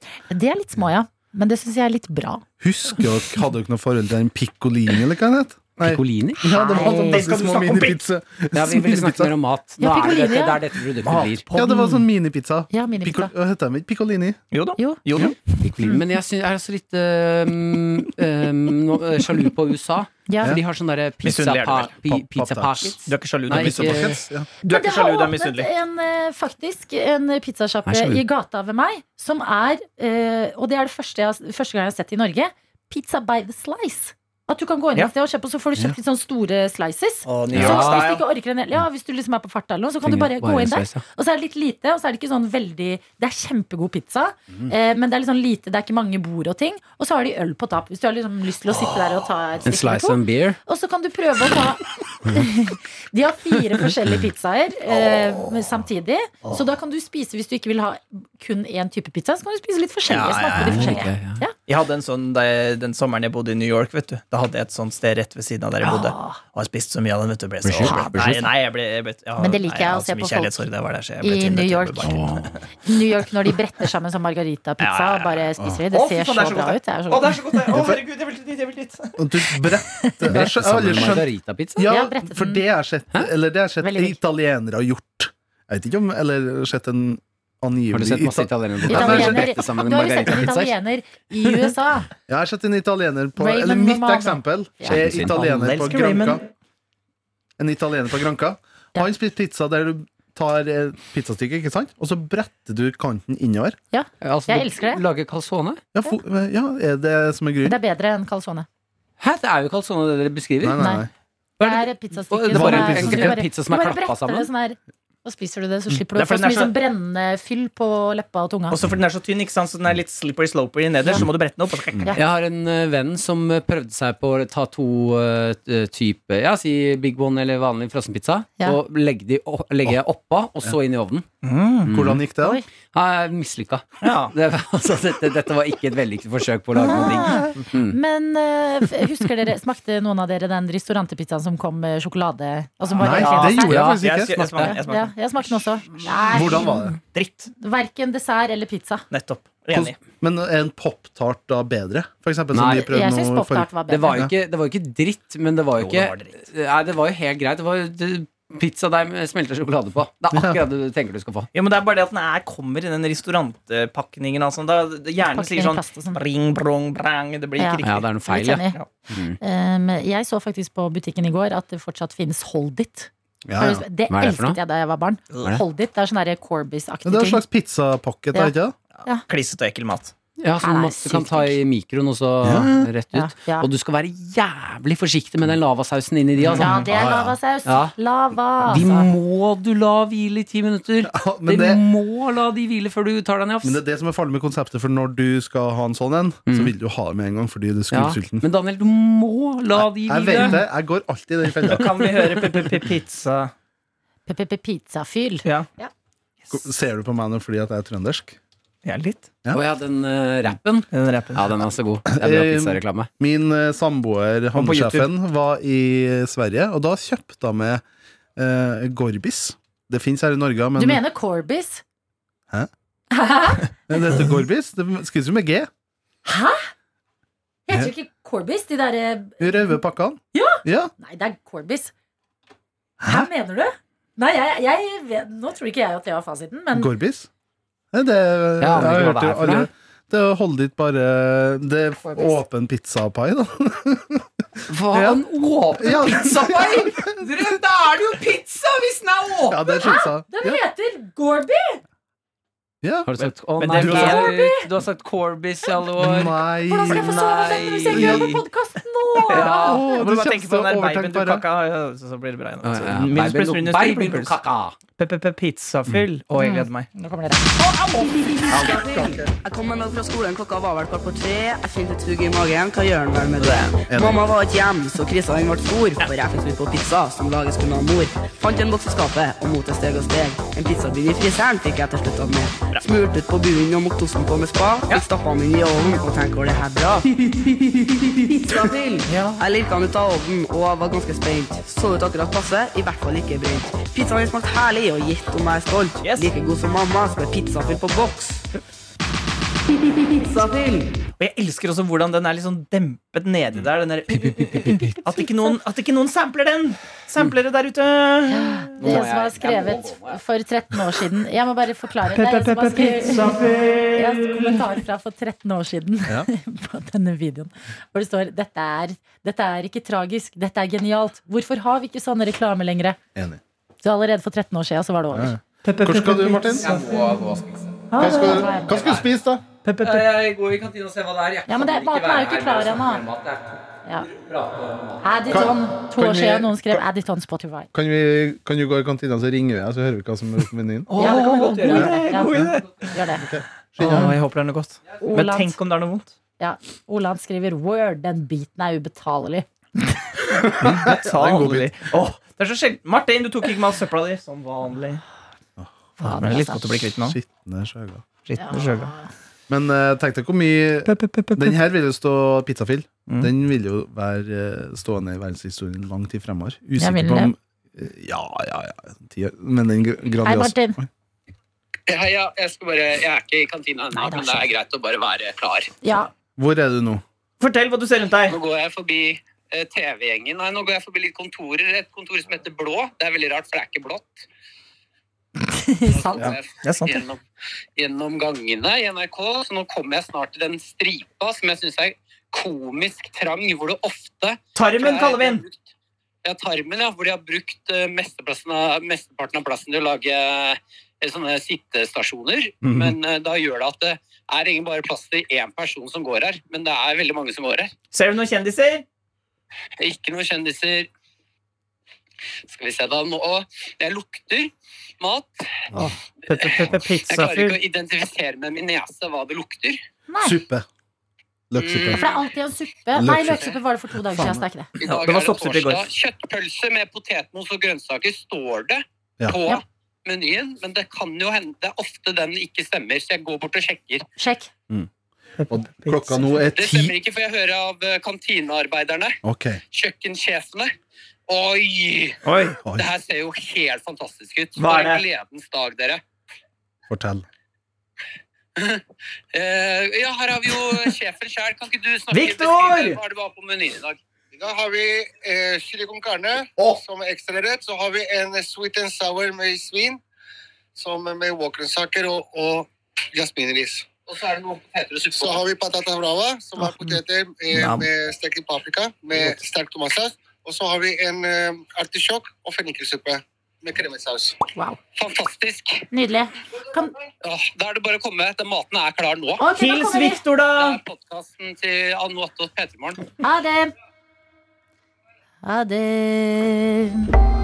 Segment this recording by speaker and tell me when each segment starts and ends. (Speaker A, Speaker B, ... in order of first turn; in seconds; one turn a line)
Speaker A: 0.3-2.4
Speaker B: 2.6-9.3
Speaker C: 5.8-6.4
Speaker A: 6.4-7.2
Speaker D: 6.7-8.0
Speaker C: 8.6-11.4
Speaker A: 9.8-10.6
Speaker D: 11.0-12.0
Speaker B: 11.5-14.4
Speaker A: 12.7-13.3
Speaker D: 14.5-15.4
Speaker C: 15.6-24.2
Speaker A: 20.3-20.6
Speaker D: 21.2-22.0
Speaker B: 22.1-23.0
Speaker D: 23.1-25.7
Speaker B: 23.5-24.5
Speaker A: 24.6-61.5
Speaker C: 27.9-28.2
Speaker D: 37.3-38.2
Speaker C: 37.5-38.1
Speaker C: 40.0-41.0
Speaker C: 49.7-50.6
Speaker D: 60.1-61.1
Speaker C: 60.5-61.4
Speaker D: 61.7-72.6
Speaker A: 65.8-66.4
Speaker C: 67.6-68.5
Speaker A: 67.8-68.2
Speaker A: 69.4-70.6
Speaker A: 71.2-72.2
Speaker C: 72.1-72.5
Speaker A: 72.8-77.4
Speaker D: 74.8-79.1
Speaker B: 77.7-78.0
Speaker B: 79.2-89.5
Speaker A: 79.8-80.3
Speaker C: 80.3-81.9
Speaker A: 81.9-82.7
Speaker A: 83.8-84.2
Speaker C: 87.9-90.7
Speaker A: 88.9-92.1
Speaker B: 92.3-96.4
Speaker A: 93.4-95.0
Speaker C: 94.8-95.5
Speaker D: 95.3-96.5
Speaker B: 97.6-103.8
Speaker A: 103.9-105.0
Speaker C: 104.2-105.8
Speaker B: 106.0-107.8
Speaker A: 107.6-108.7
Speaker C: 109.2-110.8
Speaker B: 110.6-111.1
Speaker A: 110.8-111.1
Speaker C: 111.6-114.5
Speaker A: 111.6-118.8
Speaker B: 112.5-113.4
Speaker D: 116.1-116.7
Speaker D: 118.7-122.1
Speaker C: 122.2-131.2
Speaker D: 131.4-131.9
Speaker C: 131.9-132.2
Speaker B: 131.9-132.6
Speaker C: 132.9-138.0
Speaker D: 134.0-134.3
Speaker A: 136.8-144.0
Speaker B: 143.0-144.4
Speaker D: 143.0-145.1
Speaker C: 143.7-144.7
Speaker A: 144.6-146.9
Speaker B: 146.0-147.0
Speaker D: 147.1-147.5
Speaker A: 147.6-149.1
Speaker D: 149.1-150.0
Speaker B: 149.7-154.3
Speaker C: 152.5-153.0
Speaker A: 152.9-154.3
Speaker C: 153.9-161.5
Speaker D: 155.8-156.4
Speaker B: 160.3-160.6
Speaker D: 161.5-168.1
Speaker A: 165.3-166.2
Speaker A: 167.6-168.8
Speaker C: 167.8-169.4
Speaker A: 169.4-177.4
Speaker B: 173.5-173.8
Speaker C: 174.1-174.6
Speaker B: 177.1-178.8
Speaker D: 178.9-180.1
Speaker C: 180.4-186.9
Speaker A: 180.6-181.6
Speaker B: 182.4-182.9
Speaker A: 183.1-183.7
Speaker B: 186.5-187.4
Speaker A: 186.6-189.1
Speaker C: 187.7-187.9
Speaker C: 188.7-193.8
Speaker B: 191.1-191.8
Speaker B: 193.6-198.5
Speaker C: 197.9-200.6
Speaker B: 199.7-202.1
Speaker D: 201.7-203.5
Speaker A: 204.3-205.9
Speaker B: 206.5-208.4
Speaker D: 208.8-209.3
Speaker C: 209.5-213.1
Speaker D: 210.9-211.6
Speaker B: 212.1-217.8
Speaker D: 214.6-215.1
Speaker B: 218.4-221.0
Speaker A: 220.8-221.8
Speaker A: 223.1-223.7
Speaker B: 223.9-225.7
Speaker A: 226.2-226.6
Speaker A: 227.7-229.6
Speaker B: 229.4-230.9
Speaker A: 230.3-231.9
Speaker B: 233.0-233.3
Speaker A: 233.0-236.9
Speaker B: 236.7-237.3
Speaker B: 237.9-244.3
Speaker C: 238.6-239.7
Speaker A: 242.1-242.4
Speaker C: 244.7-249.6
Speaker B: 244.9-245.2
Speaker B: 245.8-247.1
Speaker B: 249.5-250.6
Speaker A: 249.7-251.8
Speaker B: 252.8-253.2
Speaker C: 253.1-258.4
Speaker D: 253.6-254.3
Speaker B: 253.8-254.2
Speaker A: 254.0-254.7
Speaker B: 256.0-257.4
Speaker A: 256.7-259.8
Speaker B: 257.9-258.3
Speaker D: 259.3-264.4
Speaker C: 259.4-259.8
Speaker B: 259.5-261.4
Speaker C: 262.6-264.8
Speaker D: 265.0-266.9
Speaker A: 266.4-269.1
Speaker C: 268.5-269.3
Speaker E: 269.4-287.1
Speaker D: 273.4-273.7
Speaker B: 273.9-274.3
Speaker E: 288.4-298.3
Speaker D: 289.1-289.4
Speaker D: 296.0-296.3
Speaker E: 300.2-300.7
Speaker D: 301.2-309.0
Speaker A: 308.3-323.0
Speaker C: 308.8-310.2
Speaker D: 312.1-314.1
Speaker B: 323.1-323.4
Speaker A: 323.8-325.4
Speaker B: 325.1-326.8
Speaker D: 325.6-327.1
Speaker C: 326.5-329.0
Speaker D: 327.9-328.2
Speaker B: 328.0-329.4
Speaker A: 328.1-328.9
Speaker D: 329.6-330.1
Speaker C: 329.8-335.4
Speaker A: 331.5-333.0
Speaker A: 335.0-337.7
Speaker B: 335.3-336.8
Speaker B: 337.7-341.0
Speaker D: 340.9-342.9
Speaker C: 341.0-342.2
Speaker A: 341.0-343.2
Speaker B: 343.2-344.1
Speaker D: 343.8-346.1
Speaker A: 345.0-345.6
Speaker A: 346.4-350.1
Speaker D: 350.6-355.0
Speaker B: 350.6-351.7
Speaker A: 356.0-356.6
Speaker D: 356.0-357.2
Speaker B: 357.0-358.0
Speaker D: 358.3-358.9
Speaker A: 358.4-359.1
Speaker B: 359.5-370.9
Speaker D: 360.9-361.6
Speaker A: 366.8-367.3
Speaker A: 370.2-370.8
Speaker F: 371.9-375.7
Speaker A: 373.9-374.5
Speaker A: 375.8-376.1
Speaker B: 376.4-377.0
Speaker D: 377.4-378.4
Speaker F: 378.3-384.2
Speaker A: 385.4-386.4
Speaker F: 385.9-387.2
Speaker D: 386.6-387.1
Speaker F: 387.8-395.7
Speaker D: 394.6-395.4
Speaker F: 396.2-407.7
Speaker B: 402.6-403.0
Speaker D: 407.9-408.9
Speaker F: 409.8-410.9
Speaker F: 412.5-415.6
Speaker D: 415.7-417.6
Speaker F: 416.4-419.8
Speaker A: 420.1-420.4
Speaker B: 420.2-420.6
Speaker B: 421.5-422.1
Speaker F: 421.6-422.2
Speaker A: 422.0-424.7
Speaker B: 422.9-424.4
Speaker D: 424.8-425.9
Speaker F: 424.8-434.0
Speaker A: 434.2-434.5
Speaker D: 435.4-436.2
Speaker B: 435.5-437.0
Speaker F: 436.6-439.2
Speaker B: 439.2-439.6
Speaker F: 439.7-440.7
Speaker F: 441.3-442.2
Speaker D: 442.2-442.6
Speaker F: 442.7-446.0
Speaker D: 444.6-445.1
Speaker B: 446.9-447.2
Speaker F: 448.6-448.8
Speaker F: 449.3-454.0
Speaker D: 452.1-453.0
Speaker G: 454.3-460.0
Speaker B: 456.6-456.8
Speaker G: 460.8-474.4
Speaker D: 467.5-467.9
Speaker F: 475.0-475.9
Speaker A: 475.9-476.9
Speaker F: 477.2-479.4
Speaker A: 479.4-480.2
Speaker D: 479.6-480.8
Speaker F: 480.6-483.1
Speaker A: 483.2-483.7
Speaker A: 485.4-487.1